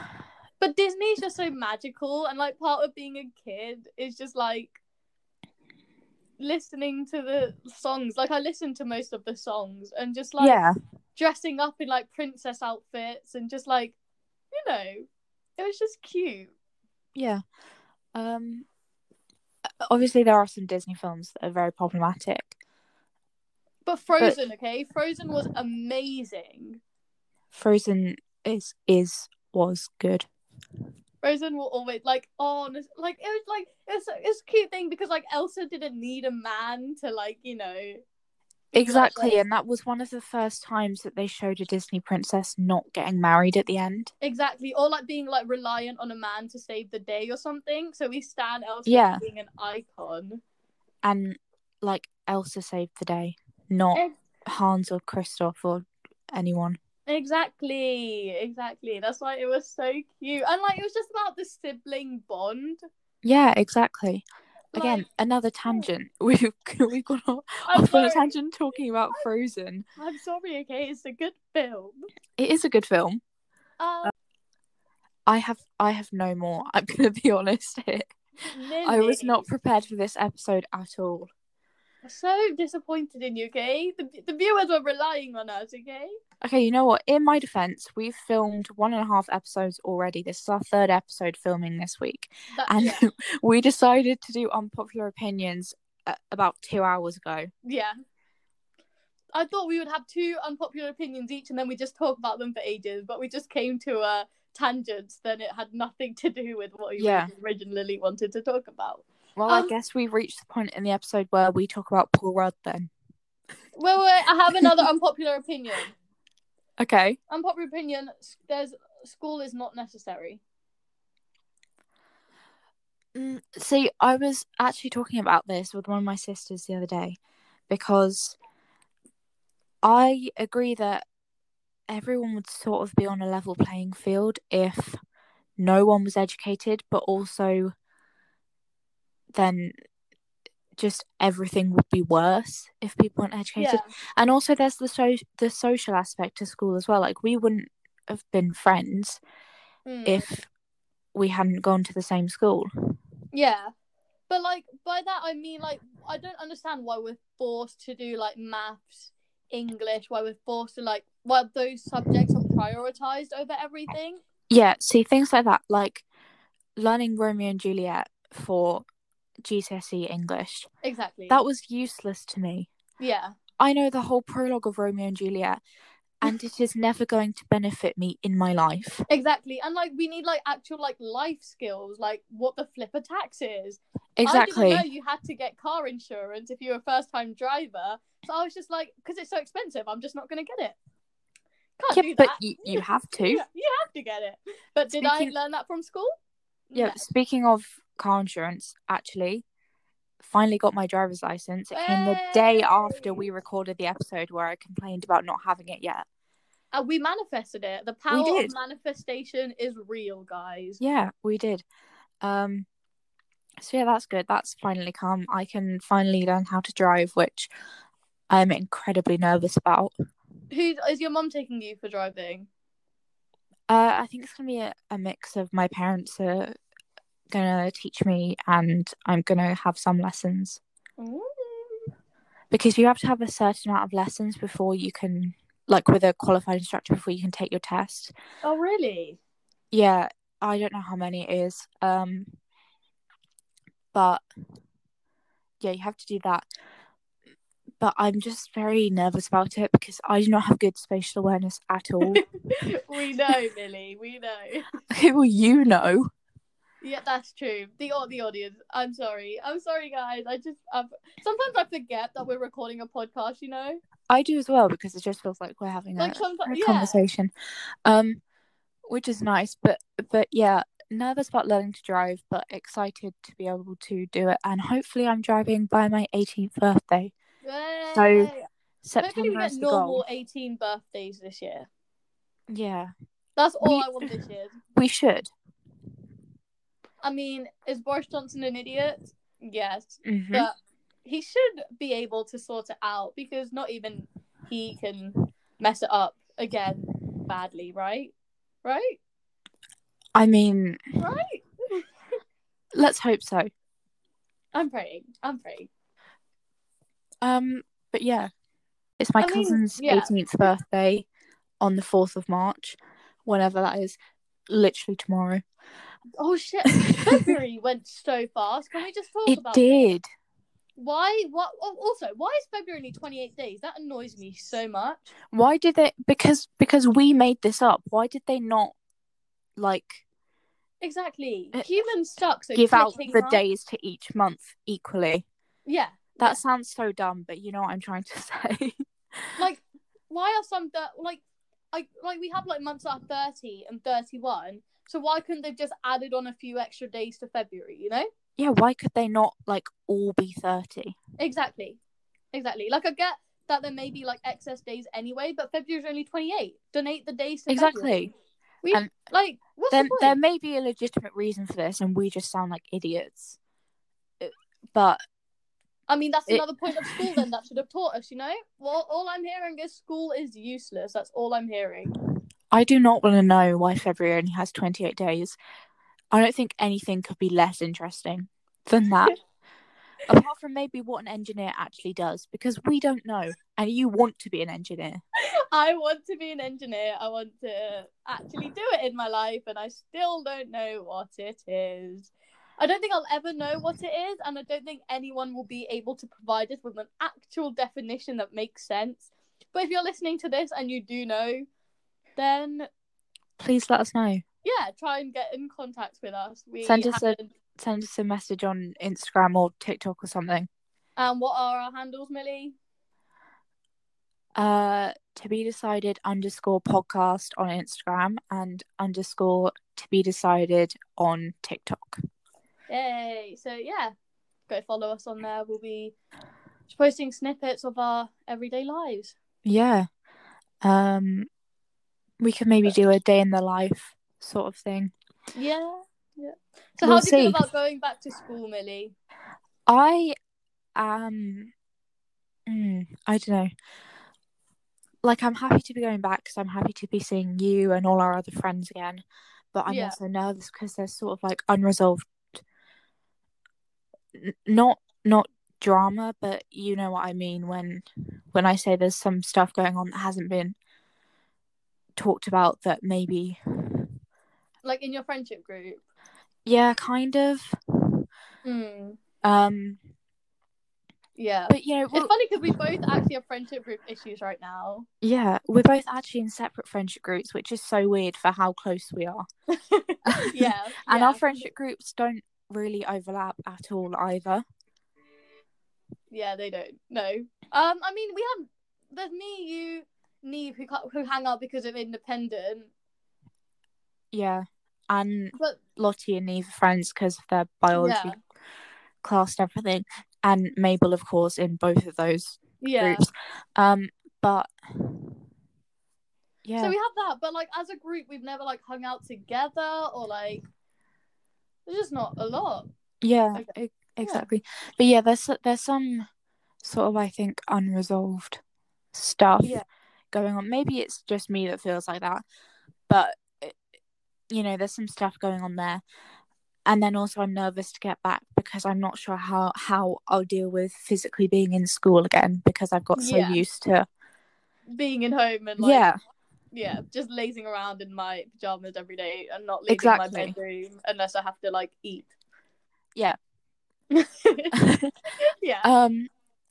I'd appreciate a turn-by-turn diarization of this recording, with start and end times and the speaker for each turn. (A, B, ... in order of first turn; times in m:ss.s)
0:00.6-0:04.8 A
0:06.4-0:10.6 A
0:10.4-0:10.7 B
0:11.2-0:14.0 A
0:14.5-0:15.1 A
0:15.6-0:16.5 A
0:17.2-0:17.4 B
0:18.2-0:18.7 B
0:19.8-0:22.5 B
0:23.9-0:26.8 A
0:27.5-0:30.3 B
0:31.2-0:38.0 A
0:38.7-0:44.1 B
0:38.8-0:39.4 A
0:44.2-0:50.4 A
0:48.9-0:49.2 B
0:51.0-0:56.8 B
0:57.1-1:02.8 A
1:03.2-1:09.8 B
1:04.7-1:05.1 A
1:07.7-1:08.3 A
1:10.0-1:12.0 A
1:12.4-1:13.2 B
1:13.8-1:14.1 A
1:15.3-1:18.1 B
1:18.4-1:19.4 A
1:18.8-1:21.3 B
1:22.0-1:26.1 A
1:26.4-1:37.5 B
1:32.5-1:33.0 A
1:37.6-1:38.0 A
1:39.3-1:49.7 A
1:47.0-1:47.3 B
1:49.4-1:52.9 B
1:53.8-1:55.9 A
1:54.6-1:54.8 B
1:56.8-1:57.2 B
1:57.3-2:00.4 A
2:03.2-2:07.2 B
2:07.7-2:08.4 B
2:09.8-2:11.0 B
2:11.9-2:15.0 B
2:15.6-2:17.7 B
2:19.3-2:19.7 B
2:20.8-2:29.2 B
2:23.6-2:23.9 A
2:29.9-2:30.3 A
2:30.1-2:30.5 B
2:31.1-2:32.7 B
2:33.3-2:33.7 A
2:34.3-2:44.2 A
2:44.5-2:46.0 B
2:46.8-2:48.8 B
2:49.4-2:50.7 B
2:50.8-2:51.4 A
2:51.3-2:52.7 B
2:53.0-2:53.4 A
2:53.6-2:55.6 B
2:56.2-2:59.0 B
2:59.1-3:10.8 A
3:04.2-3:04.9 B
3:11.8-3:16.1 A
3:11.9-3:13.4 B
3:15.0-3:15.3 B
3:16.7-3:17.1 A
3:16.8-3:19.4 B
3:20.2-3:26.0 B
3:21.7-3:23.3 A
3:26.7-3:30.8 A
3:28.1-3:28.5 B
3:30.8-3:31.6 B
3:32.2-3:32.7 B
3:33.6-3:37.5 B
3:38.3-3:39.9 B
3:40.5-3:42.5 A
3:43.7-3:46.6 B
3:47.3-3:50.6 B
3:51.0-3:51.9 A
3:52.5-3:58.1 B
3:58.4-3:59.2 A
3:59.7-4:02.3 B
4:03.9-4:04.2 B
4:05.6-4:06.5 B
4:07.8-4:12.2 B
4:12.0-4:14.7 A
4:14.9-4:16.1 B
4:16.8-4:23.8 A
4:24.1-4:27.3 B
4:26.0-4:27.0 A
4:27.8-4:28.2 B
4:28.9-4:37.1 B
4:37.4-4:38.5 A
4:38.0-4:38.3 B
4:38.8-4:40.0 B
4:39.0-4:41.7 A
4:42.5-4:42.9 B
4:43.4-4:44.6 A
4:43.6-4:44.1 B
4:44.8-4:45.3 B
4:47.0-4:59.0 A
4:50.0-4:50.5 B
5:00.2-5:00.8 B
5:01.0-5:01.8 A
5:02.7-5:03.5 B
5:04.5-5:05.7 A
5:07.2-5:08.3 B
5:09.0-5:11.1 B
5:09.2-5:10.1 A
5:11.6-5:14.0 B
5:14.5-5:15.4 B
5:16.2-5:19.9 A
5:19.3-5:20.0 B
5:20.8-5:25.1 A
5:25.3-5:28.8 B
5:29.6-5:30.0 B
5:30.8-5:33.4 A
5:32.6-5:35.2 B
5:35.7-5:36.4 A
5:36.2-5:38.8 B
5:39.4-5:41.2 A
5:41.7-5:48.1 A
5:48.4-5:51.0 B
5:51.2-5:51.8 A
5:52.3-5:58.0 A
5:57.5-5:58.1 B
5:58.6-6:00.2 A
5:59.7-6:03.4 B
6:04.2-6:05.0 B
6:05.9-6:11.9 A
6:06.3-6:07.2 B
6:12.5-6:15.4 B
6:16.1-6:19.2 B
6:20.1-6:25.0 B
6:25.5-6:41.5 A
6:42.2-6:42.7 A
6:43.4-6:44.2 B
6:44.4-6:47.3 A
6:46.6-6:50.5 B
6:51.0-6:52.6 A
6:54.4-7:02.0 B
7:02.7-7:03.9 A
7:04.5-7:06.0 A
7:06.7-7:09.2 A
7:09.4-7:09.9 B
7:10.6-7:11.3 B
7:12.2-7:14.9 B
7:15.4-7:19.0 A
7:16.8-7:17.4 B
7:19.7-7:20.1 B
7:20.8-7:21.5 B
7:22.5-7:23.5 B
7:25.0-7:29.0 B
7:29.5-7:32.4 B
7:29.7-7:30.0 A
7:34.2-7:40.6 B
7:42.0-7:43.9 B
7:44.6-7:45.8 A
7:46.4-7:48.0 B
7:48.4-7:49.0 A
7:49.2-7:49.8 B
7:51.2-7:54.9 A
7:51.5-7:52.1 B
7:55.0-7:59.3 B
7:59.5-8:01.5 A
8:00.1-8:04.4 B
8:06.1-8:12.7 A
8:14.1-8:18.2 B
8:15.4-8:15.6 A
8:17.7-8:18.2 A
8:19.0-8:25.0 B
8:22.6-8:23.1 A
8:26.4-8:26.8 B
8:26.6-8:30.4 A
8:31.7-8:32.7 A
8:33.0-8:36.0 B
8:36.6-8:38.4 B
8:38.9-8:39.6 B
8:39.4-8:39.6 A
8:40.1-8:42.2 B
8:42.9-8:43.6 B
8:44.3-8:45.8 B
8:46.7-8:53.9 B
8:53.0-8:53.4 A
8:54.7-8:55.8 A
8:55.6-8:56.0 B
8:56.5-9:02.1 A
8:59.7-9:00.4 B
9:03.9-9:04.6 A
9:04.5-9:04.9 B
9:05.4-9:05.7 A
9:05.6-9:06.1 B